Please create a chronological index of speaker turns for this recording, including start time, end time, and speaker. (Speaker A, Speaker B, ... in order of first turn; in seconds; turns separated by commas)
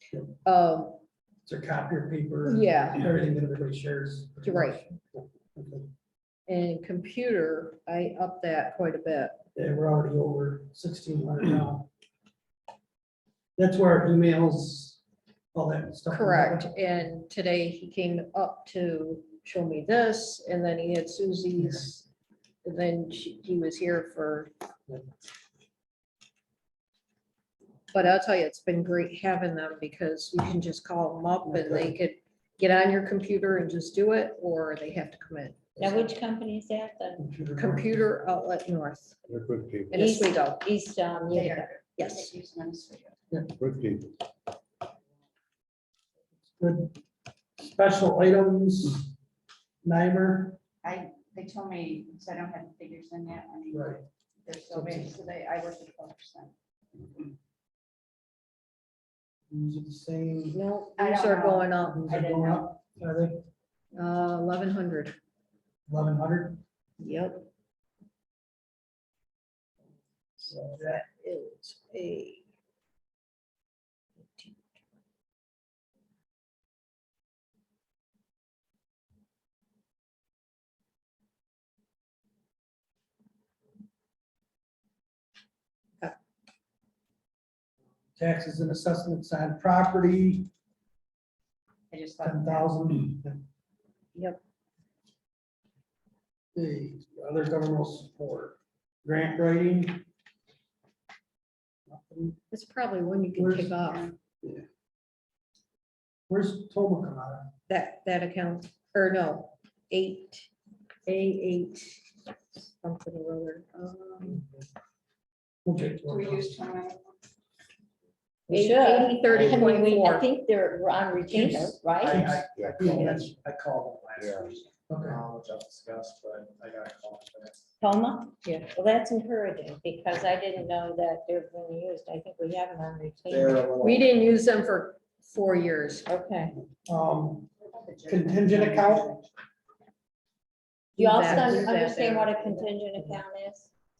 Speaker A: 0.4-1.0, Speaker B: 1.5-5.9, Speaker A: 2.5-3.0, Speaker A: 4.4-4.9, Speaker A: 6.5-9.4, Speaker B: 9.6-11.9, Speaker B: 13.6-15.0, Speaker B: 15.5-16.7, Speaker A: 16.1-22.1, Speaker B: 21.6-21.8, Speaker A: 22.6-24.5, Speaker A: 27.9-35.6, Speaker B: 31.5-31.9, Speaker C: 35.8-37.3, Speaker B: 37.2-38.0, Speaker A: 37.6-39.2, Speaker D: 39.3-40.0, Speaker A: 39.9-40.6, Speaker C: 39.9-41.7, Speaker E: 41.3-43.2, Speaker A: 42.0-42.3, Speaker D: 43.6-44.1, Speaker B: 46.6-47.0, Speaker B: 47.6-49.1, Speaker B: 49.8-50.6, Speaker E: 50.8-56.5, Speaker B: 53.7-54.0, Speaker B: 54.7-55.1, Speaker B: 59.5-60.6, Speaker A: 60.5-62.6, Speaker E: 61.0-61.8, Speaker B: 61.8-63.5, Speaker A: 63.9-65.2, Speaker B: 65.9-66.6, Speaker A: 67.0-67.5, Speaker A: 70.4-72.4, Speaker B: 70.5-71.0, Speaker A: 74.2-74.6, Speaker B: 88.2-90.5, Speaker E: 91.9-92.7, Speaker B: 92.2-93.4, Speaker B: 96.5-100.0, Speaker B: 101.9-102.4, Speaker A: 102.5-104.1, Speaker B: 103.3-103.8, Speaker E: 103.9-104.2, Speaker B: 106.3-107.5, Speaker A: 107.7-110.5, Speaker A: 111.1-114.4, Speaker B: 114.3-114.7, Speaker B: 115.7-116.6, Speaker E: 116.0-117.2, Speaker A: 118.5-120.3, Speaker C: 118.5-123.3, Speaker A: 121.3-121.8, Speaker F: 122.0-127.6, Speaker B: 122.1-123.3, Speaker D: 122.5-122.9, Speaker D: 124.2-124.5, Speaker B: 124.9-125.2, Speaker C: 127.8-133.7, Speaker F: 133.3-134.1, Speaker A: 133.8-136.1, Speaker C: 136.1-136.6, Speaker B: 136.8-137.5, Speaker E: 137.6-139.3, Speaker B: 138.1-139.1, Speaker A: 141.0-142.7, Speaker C: 141.0-143.7, Speaker B: 141.3-141.7